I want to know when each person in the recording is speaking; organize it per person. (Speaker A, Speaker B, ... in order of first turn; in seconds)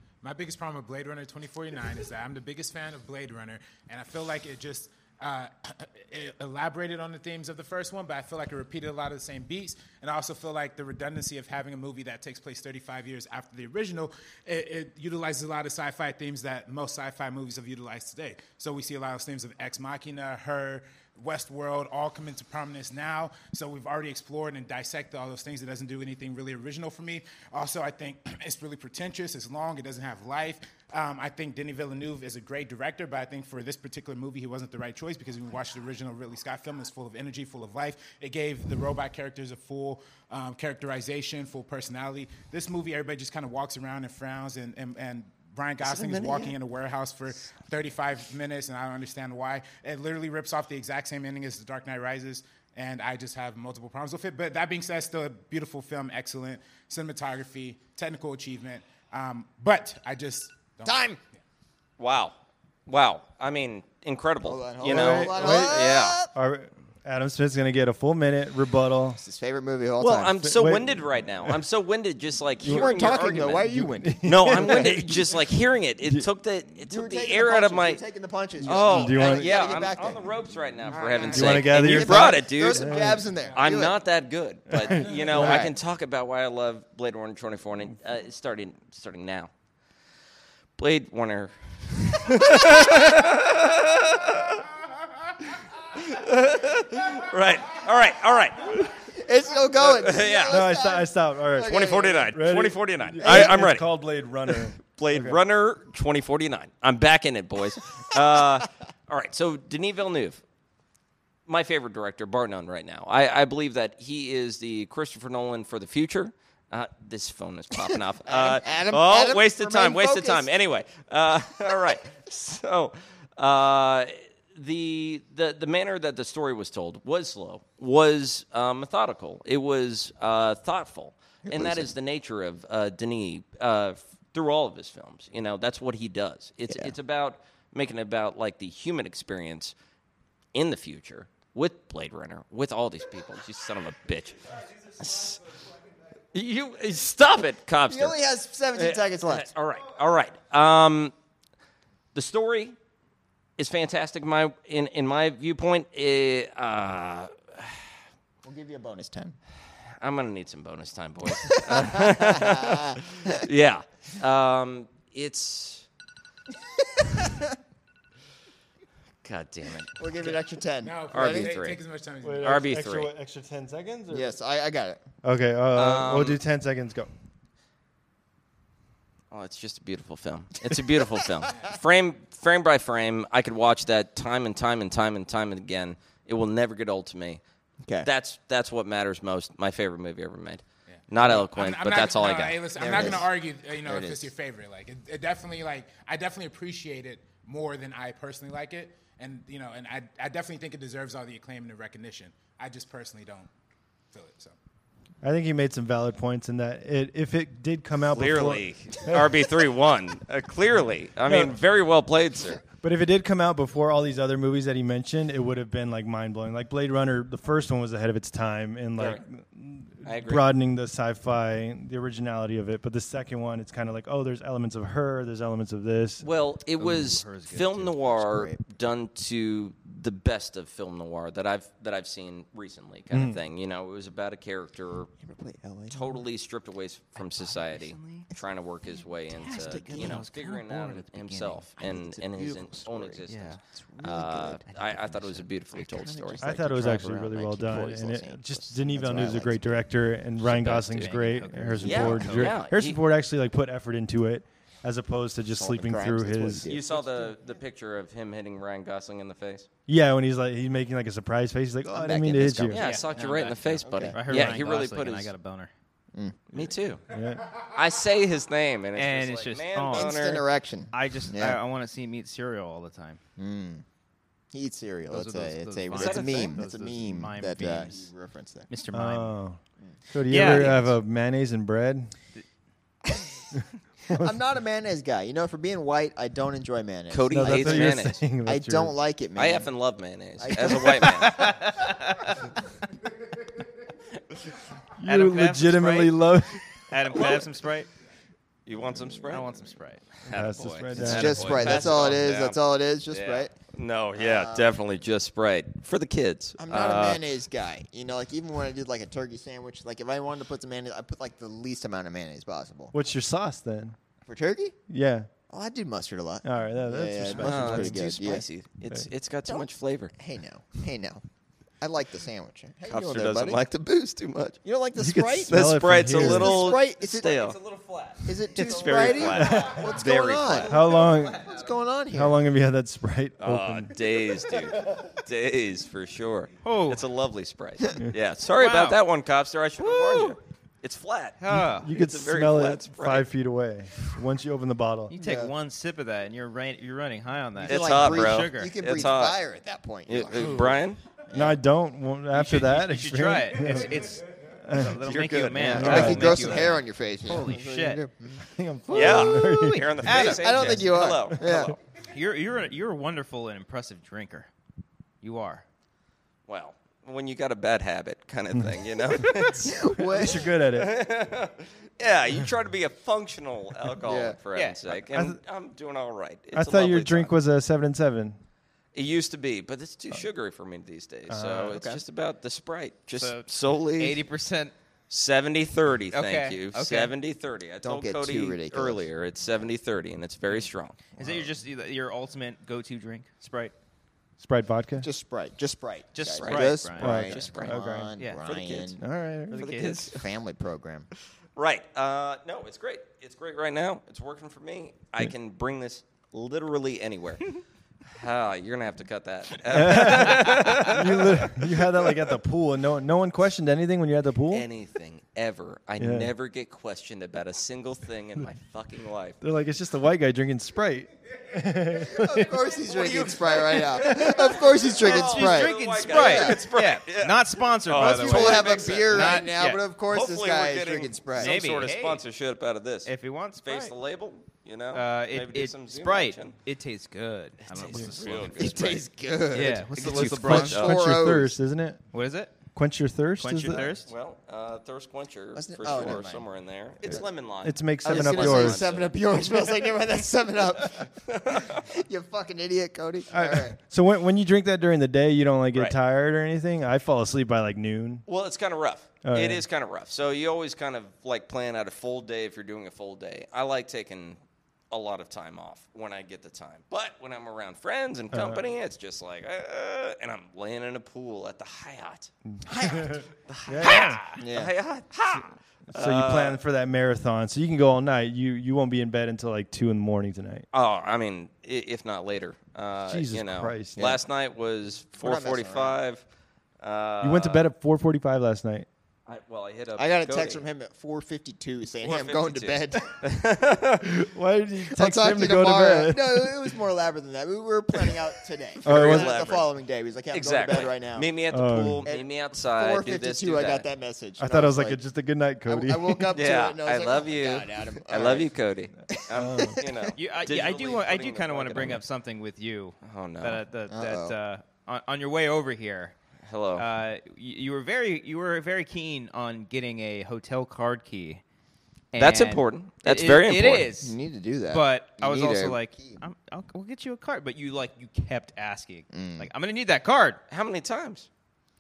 Speaker A: 0.2-61.0, 80.9-81.8, 83.3-83.6, 170.8-172.8, 190.9-203.5, 204.1-204.6
Speaker B: 45.9-46.5, 62.0-62.3, 62.9-66.2, 70.0-73.7, 74.2-78.0, 78.6-83.0, 83.5-89.5, 90.8-94.7, 95.9-98.9, 99.8-100.6, 101.6-103.9, 104.8-110.4, 111.5-139.7, 140.5-145.4, 146.3-148.2, 148.7-151.1, 152.2-152.8, 153.6-157.8, 160.0-165.9, 169.2-170.3, 171.1-171.8, 172.4-173.1, 175.7-176.4, 179.3-187.4, 188.0-193.2, 208.1-212.6, 220.0-220.4, 226.2-235.1, 235.9-246.4, 250.4-251.1, 251.8-253.0, 256.7-259.7, 262.7-265.3, 266.5-267.1, 267.6-270.4, 275.9-276.6, 280.4-280.8, 287.1-288.2, 289.4-291.4, 297.1-297.4, 298.7-299.6, 300.3-302.6, 303.1-307.2, 317.4-320.1, 322.9-324.6, 325.5-327.6, 328.6-330.7, 333.4-343.3, 347.6-349.4, 350.1-351.0, 355.0-356.7, 358.9-361.8, 366.5-377.3, 378.9-384.2, 385.1-391.0, 396.4-397.8, 398.4-399.0, 399.5-400.3, 401.6-407.6, 408.1-412.1, 414.5-419.4, 422.9-429.5, 430.1-436.6, 437.7-439.0, 440.0-441.0, 444.0-449.2, 451.2-451.9, 458.3-464.4, 464.9-472.3, 473.5-476.6, 480.7-486.2, 486.8-487.7, 489.3-490.6, 492.0-494.2, 498.8-499.7, 500.3-503.9, 506.3-512.0, 513.0-513.6, 516.5-516.9, 522.2-523.9, 530.5-531.3
Speaker C: 60.8-61.2, 64.4-66.3, 69.2-70.4, 72.6-75.0, 76.9-80.3, 81.8-84.0, 85.3-85.7, 99.0-102.3, 103.2-103.6, 117.9-120.5, 131.4-131.9, 147.9-149.5, 158.4-159.4, 161.4-163.4, 166.8-167.5, 169.9-171.6, 174.1-175.0, 181.2-181.5, 192.8-193.3, 193.8-194.3, 228.2-228.6, 235.2-236.2, 239.3-249.9, 255.5-257.6, 261.9-262.9, 263.8-264.2, 266.1-266.7, 269.9-271.6, 273.4-273.8, 274.5-278.7, 283.1-283.4, 284.1-289.7, 290.4-291.4, 301.0-303.5, 304.2-304.8, 306.6-312.9, 314.2-314.8, 315.5-318.4, 319.5-321.2, 321.8-323.6, 324.6-327.3, 328.2-332.4, 345.2-345.5, 347.6-350.8, 351.3-351.6, 355.8-358.5, 360.1-361.8, 369.6-370.5, 374.0-374.4, 381.6-382.0, 387.8-389.1, 391.2-391.4, 395.0-399.0, 400.1-401.1, 422.1-426.6, 428.0-431.6, 438.5-441.6, 445.6-446.5, 448.0-453.8, 472.8-473.2, 474.4-474.7, 485.2-486.0, 490.0-493.1, 494.9-501.3, 502.0-505.0, 505.7-508.5, 509.1-510.1, 513.9-514.4, 524.0-526.2, 529.1-529.5
Speaker D: 64.8-69.2, 70.4-71.5, 72.6-75.4, 78.7-79.7, 81.3-83.2, 84.7-85.7, 100.5-105.4, 172.2-174.3, 175.2-177.1, 205.2-209.2, 211.3-211.5, 212.7-226.3, 233.1-233.4, 246.4-256.7, 259.9-262.8, 267.1-267.5, 278.9-282.1, 287.3-288.9, 295.0-297.3, 300.3-301.8, 312.9-313.9, 314.9-315.3, 316.4-318.2, 325.0-326.8, 329.4-329.8, 330.7-331.4, 332.1-334.0, 341.5-345.1, 351.3-354.0, 354.6-355.0, 355.6-356.5, 358.5-360.2, 370.0-371.0, 375.1-375.4, 376.5-378.4, 381.3-381.8, 394.4-395.1, 397.0-398.1, 399.0-399.7, 409.7-414.7, 416.0-416.3, 419.4-422.6, 440.2-442.0, 442.8-443.9, 447.6-448.8, 453.3-458.2, 459.2-459.6, 468.3-468.6, 472.8-474.2, 475.9-480.7, 483.1-484.1, 487.2-488.9, 494.1-496.7, 498.9-499.4, 501.5-502.1, 504.4-506.3, 509.3-509.8
Speaker E: 226.8-227.9, 237.2-238.3, 239.4-240.5, 243.3-243.6, 250.4-252.6, 262.8-265.7, 268.9-270.2, 270.9-273.2, 275.1-278.1, 278.7-279.4, 280.3-280.9, 291.2-292.5, 295.1-296.2, 296.9-297.9, 299.3-302.2, 327.1-329.9, 330.7-331.6, 336.6-337.0, 338.6-339.0, 339.8-340.4, 341.4-341.9, 345.1-348.8, 352.3-358.0, 358.9-360.8, 362.1-364.5, 365.2-365.6, 374.5-374.8, 383.2-384.7, 386.1-387.1, 390.5-393.7, 396.1-397.2, 398.2-398.4, 399.5-400.1, 425.0-429.8, 431.4-432.2, 433.1-433.9, 434.9-439.0, 439.5-440.9, 442.1-442.6, 443.4-444.1, 510.2-516.1, 516.8-521.4, 522.1-524.2, 524.7-530.4